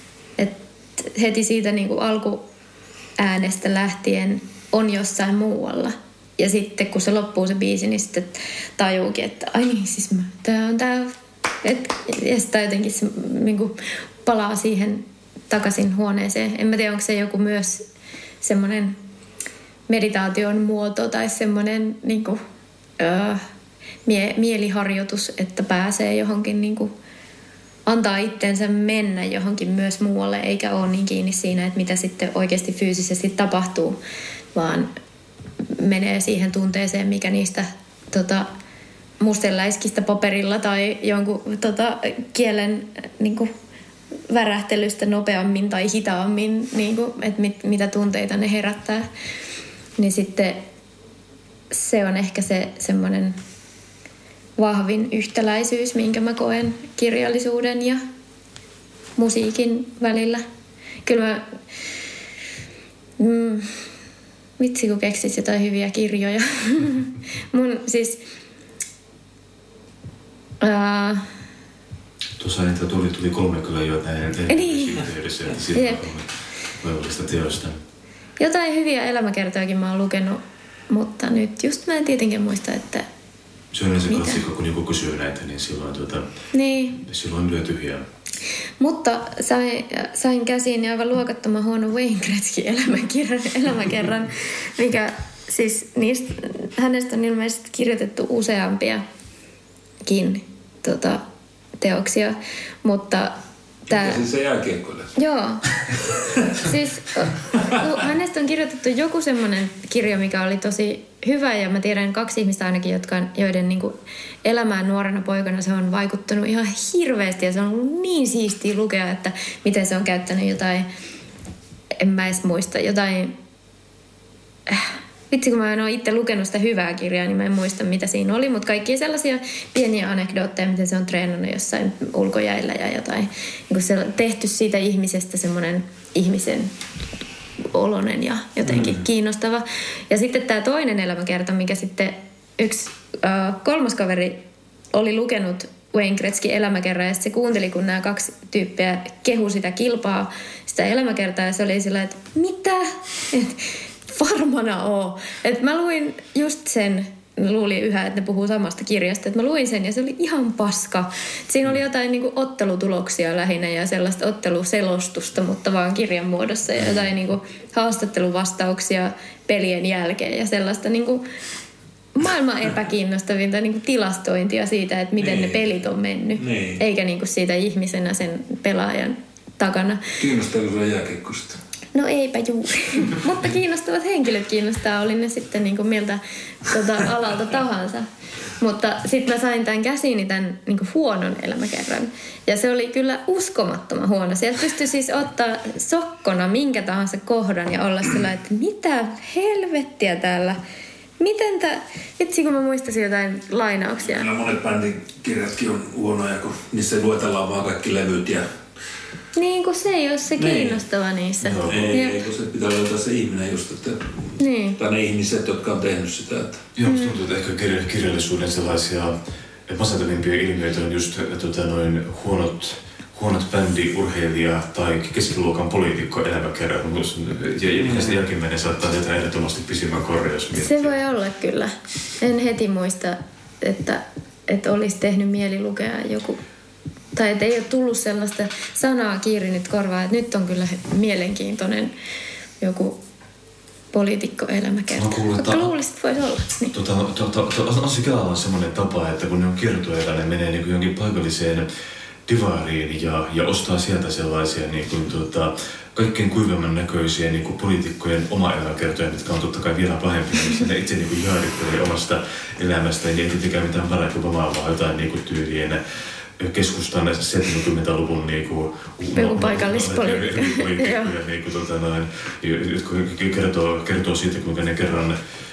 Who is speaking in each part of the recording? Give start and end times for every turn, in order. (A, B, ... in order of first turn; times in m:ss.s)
0:00.4-0:02.4 A
0:03.2-0:17.8 A
0:18.4-0:19.0 A
0:19.9-0:22.4 A
0:23.0-0:23.4 A
0:24.0-0:26.9 A
0:27.8-0:34.0 A
0:34.5-0:34.9 A
0:35.7-0:38.5 A
0:39.2-0:43.5 A
0:44.3-0:49.1 A
0:50.0-0:50.6 A
0:51.7-0:53.4 A
0:54.6-0:58.0 A
0:59.2-1:00.4 A
1:01.0-1:01.5 A
1:03.2-1:03.8 A
1:04.6-1:08.2 A
1:10.6-1:11.2 A
1:12.4-1:17.8 B
1:14.5-1:15.0 A
1:15.7-1:16.0 A
1:18.4-1:23.1 A
1:23.7-1:26.2 B
1:24.1-1:24.4 A
1:26.5-1:27.0 A
1:26.9-1:28.0 B
1:28.8-1:39.0 A
1:40.0-1:41.2 A
1:41.8-1:43.4 A
1:43.9-1:45.1 C
1:43.9-1:44.2 A
1:45.2-1:45.6 A
1:46.5-2:00.9 A
2:02.0-2:03.3 A
2:04.7-2:16.7 A
2:17.7-2:24.4 A
2:18.6-2:19.0 C
2:24.9-2:51.2 A
2:52.1-3:00.1 A
2:55.2-2:55.7 C
2:56.4-2:56.8 C
3:00.2-3:01.6 C
3:01.9-3:08.1 A
3:08.6-3:20.6 A
3:21.2-3:24.2 A
3:24.0-3:28.5 C
3:29.4-3:32.2 A
3:30.4-3:30.8 C
3:31.4-3:32.0 B
3:31.6-3:36.6 C
3:34.4-3:34.8 A
3:36.8-3:51.0 B
3:36.8-3:37.2 A
3:47.8-3:48.2 C
3:50.5-3:56.4 A
3:57.1-4:01.9 A
4:02.6-4:03.0 A
4:03.9-4:06.7 A
4:04.9-4:05.7 B
4:06.7-4:11.7 B
4:12.2-4:25.8 B
4:26.4-4:35.2 B
4:29.1-4:31.1 A